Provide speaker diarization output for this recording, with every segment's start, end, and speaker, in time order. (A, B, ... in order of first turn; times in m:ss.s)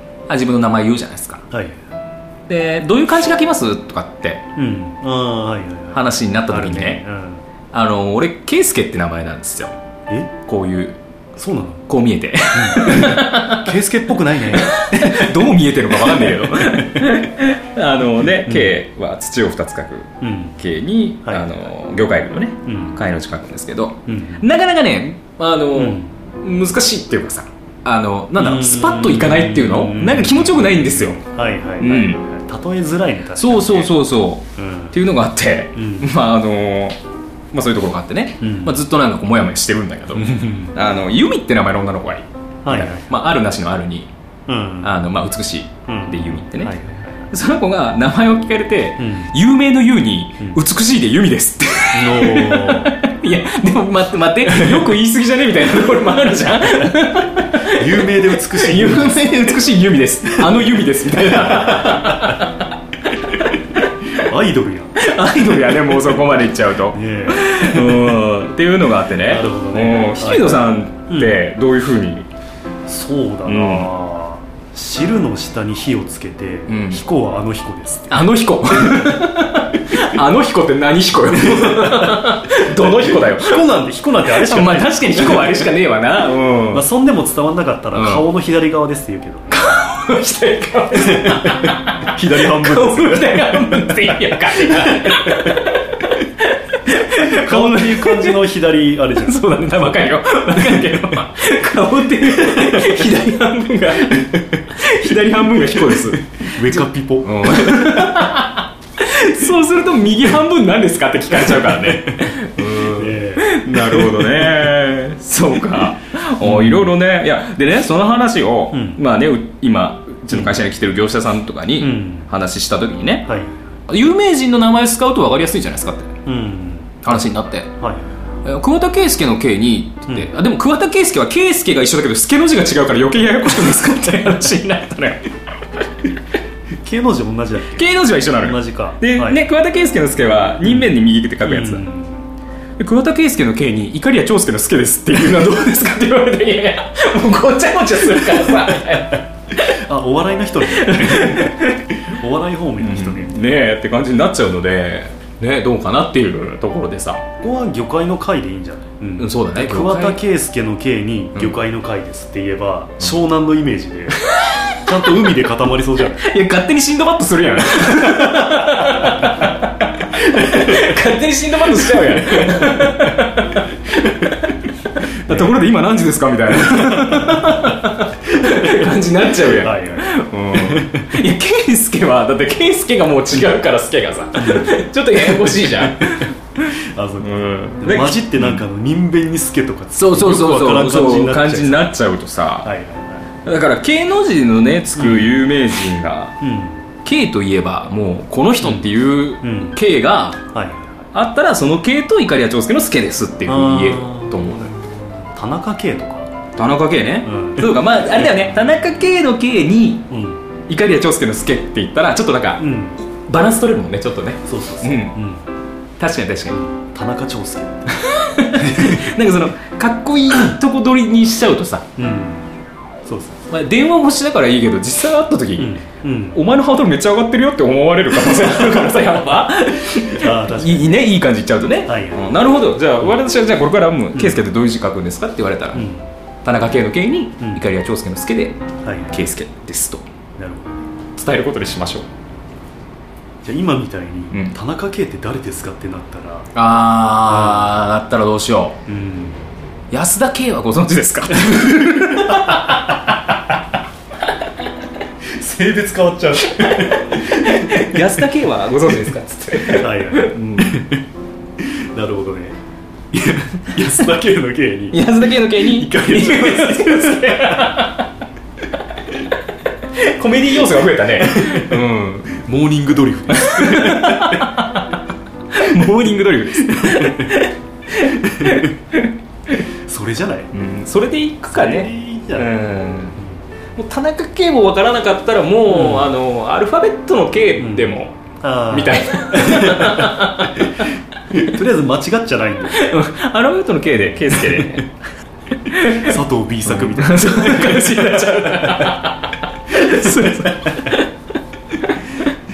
0:00.3-0:01.4 A
0:01.5-0:01.8 B
0:02.5-0:04.4 A
0:04.6-0:07.4 B
0:05.9-0:07.0 A
0:07.7-0:09.7 A
0:10.1-0:10.4 B
0:10.4-0:11.0 A
0:11.3-0:11.8 B
0:11.9-0:13.7 A
0:12.5-0:15.1 B
0:14.5-0:31.2 A
0:16.0-0:17.0 B
0:18.4-0:18.8 B
0:20.2-0:20.6 B
0:21.2-0:21.6 B
0:22.6-0:23.0 B
0:24.1-0:24.5 B
0:25.7-0:26.1 B
0:28.4-0:34.0 B
0:31.8-0:32.2 A
0:33.4-0:37.0 A
0:34.6-0:35.0 B
0:35.8-0:36.1 B
0:37.5-0:44.1 A
0:38.4-0:38.8 B
0:40.1-0:40.7 B
0:42.6-0:43.1 B
0:44.5-0:45.0 B
0:44.8-1:04.3 A
0:45.9-0:47.1 B
0:49.0-0:49.3 B
0:51.9-0:53.0 B
0:54.5-0:54.9 B
0:57.7-0:59.6 B
1:01.5-1:02.4 B
1:04.1-1:05.0 B
1:04.9-1:12.3 A
1:06.9-1:08.1 B
1:09.2-1:11.4 B
1:12.9-1:19.2 B
1:13.4-1:13.9 A
1:16.7-1:17.0 A
1:18.1-1:23.6 A
1:21.3-1:25.7 B
1:24.2-1:26.8 A
1:26.7-1:29.6 B
1:27.9-1:28.2 A
1:29.5-1:38.4 A
1:30.9-1:35.5 B
1:37.1-1:39.5 B
1:39.1-2:03.3 A
1:45.9-1:48.1 B
1:51.5-1:52.2 B
1:52.8-1:54.4 B
1:56.4-1:56.9 B
1:58.7-1:59.0 B
2:00.3-2:00.6 B
2:01.8-2:02.3 B
2:03.2-2:03.5 B
2:03.9-2:06.1 A
2:06.2-2:07.2 B
2:07.0-2:07.7 A
2:07.8-2:08.1 B
2:08.4-2:15.3 A
2:16.8-2:19.4 B
2:17.7-2:21.9 A
2:20.6-2:22.3 B
2:22.8-2:29.8 A
2:29.6-2:33.4 B
2:30.7-2:32.0 A
2:32.8-2:37.2 A
2:37.4-2:46.2 B
2:39.2-2:40.2 A
2:44.2-2:44.9 A
2:46.1-3:08.6 A
2:48.0-2:48.8 B
2:55.3-2:55.6 B
2:57.0-2:57.7 B
2:58.4-3:01.2 B
3:04.3-3:04.7 B
3:05.8-3:12.0 B
3:10.0-3:12.7 A
3:12.6-3:13.3 B
3:13.4-3:16.4 A
3:15.0-3:15.3 B
3:16.4-3:16.8 B
3:17.0-3:20.4 A
3:18.6-3:18.9 B
3:19.4-3:19.8 B
3:20.5-3:21.0 B
3:21.1-3:24.7 A
3:23.4-3:26.3 B
3:26.6-3:30.1 A
3:27.2-3:28.4 B
3:30.1-3:30.4 B
3:30.7-3:35.2 A
3:32.6-3:33.0 B
3:34.4-3:35.4 B
3:36.0-3:36.6 A
3:36.5-3:39.1 B
3:37.9-3:41.9 A
3:42.0-3:42.5 B
3:43.0-3:43.4 B
3:43.5-3:45.8 A
3:45.6-3:46.4 B
3:46.3-3:55.8 A
3:49.9-3:51.1 B
3:51.8-3:52.4 B
3:54.1-3:54.5 B
3:55.7-3:56.1 B
3:56.4-4:00.0 A
3:57.4-3:57.6 B
3:58.8-3:59.1 B
4:00.4-4:00.7 B
4:01.1-4:02.0 A
4:03.4-4:06.5 B
4:06.5-4:08.8 A
4:07.2-4:07.9 B
4:08.9-4:09.4 B
4:09.9-4:13.4 A
4:15.3-4:18.1 B
4:16.6-4:20.8 A
4:19.6-4:21.0 B
4:21.6-4:22.6 B
4:23.1-4:27.8 B
4:24.9-4:28.1 A
4:29.8-4:32.4 A
4:31.2-4:34.6 B
4:33.3-4:35.0 A
4:35.5-4:39.7 A
4:36.6-4:37.4 B
4:38.2-4:38.7 B
4:39.7-4:40.5 B
4:40.5-4:43.2 A
4:41.5-4:42.6 B
4:43.7-4:48.2 A
4:45.6-4:46.1 B
4:47.6-4:53.0 B
4:48.7-4:51.5 A
4:52.7-4:54.9 A
4:55.5-5:01.1 A
4:55.9-4:59.0 B
4:59.9-5:00.9 B
5:01.8-5:02.3 A